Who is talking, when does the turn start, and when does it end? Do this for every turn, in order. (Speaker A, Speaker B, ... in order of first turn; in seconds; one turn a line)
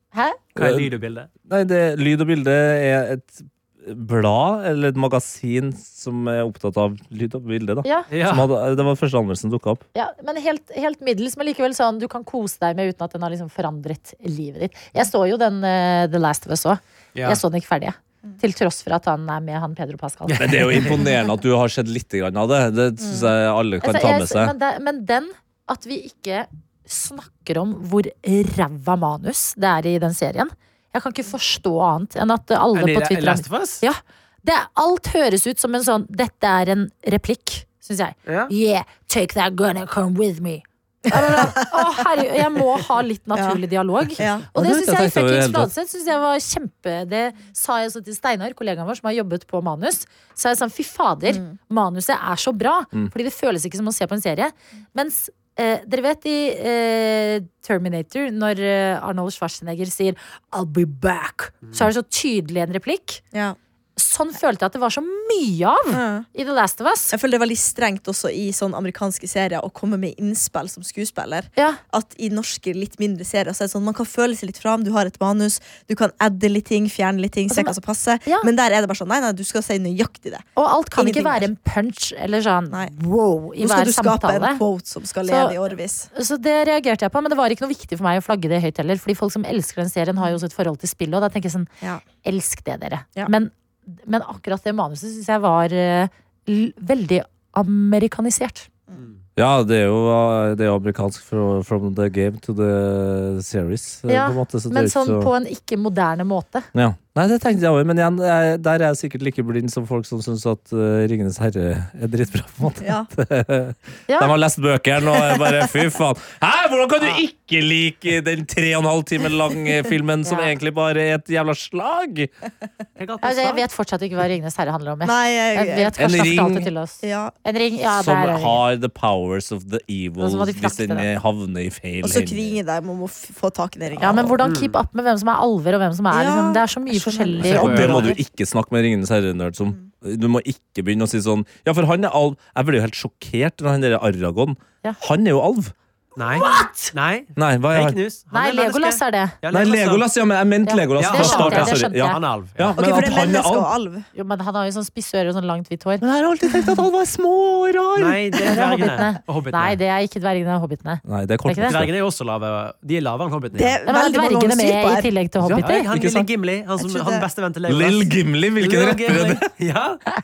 Speaker A: 0.1-0.4
Speaker B: 0.6-0.9
Speaker C: 0.6-1.3
Speaker B: 1.5-9.8
Speaker C: 8.1-8.5
Speaker A: 9.9-20.4
Speaker C: 17.1-17.4
Speaker C: 20.3-21.0
Speaker B: 20.4-24.5
Speaker D: 23.0-23.3
Speaker A: 23.8-63.2
Speaker C: 32.7-33.8
Speaker C: 38.2-38.5
Speaker D: 41.1-42.0
Speaker D: 43.3-43.6
Speaker D: 44.2-44.5
Speaker B: 44.5-45.7
Speaker D: 51.3-51.6
Speaker C: 61.6-61.9
Speaker A: 64.0-67.1
Speaker D: 65.9-66.3
Speaker D: 67.1-81.5
Speaker A: 77.5-78.5
Speaker A: 80.5-84.6
Speaker D: 83.6-86.1
Speaker A: 85.2-85.6
Speaker A: 86.1-91.7
Speaker A: 92.2-98.7
Speaker B: 99.4-105.3
Speaker A: 104.1-106.7
Speaker B: 106.7-122.3
Speaker D: 112.8-113.1
Speaker A: 120.2-120.5
Speaker C: 123.0-123.6
Speaker A: 123.2-128.6
Speaker D: 125.0-126.0
Speaker B: 126.0-126.7
Speaker D: 127.0-127.3
Speaker B: 127.9-132.6
Speaker A: 130.2-131.1
Speaker D: 132.0-134.4
Speaker B: 133.9-134.3
Speaker A: 134.0-138.2
Speaker C: 134.4-134.8
Speaker D: 136.1-138.1
Speaker B: 137.4-145.7
Speaker C: 137.4-138.1
Speaker C: 146.2-150.0
Speaker A: 146.3-146.9
Speaker B: 147.4-148.0
Speaker A: 148.3-149.3
Speaker B: 149.5-153.7
Speaker A: 150.7-152.2
Speaker C: 151.0-152.8
Speaker D: 152.8-154.1
Speaker A: 154.1-156.0
Speaker B: 156.0-158.5
Speaker C: 157.9-159.8
Speaker A: 158.4-161.8
Speaker B: 161.0-161.9
Speaker C: 161.6-163.8
Speaker D: 163.5-165.1
Speaker A: 163.9-165.9
Speaker B: 165.4-166.3
Speaker C: 165.6-170.1
Speaker D: 166.8-167.2
Speaker B: 167.7-169.4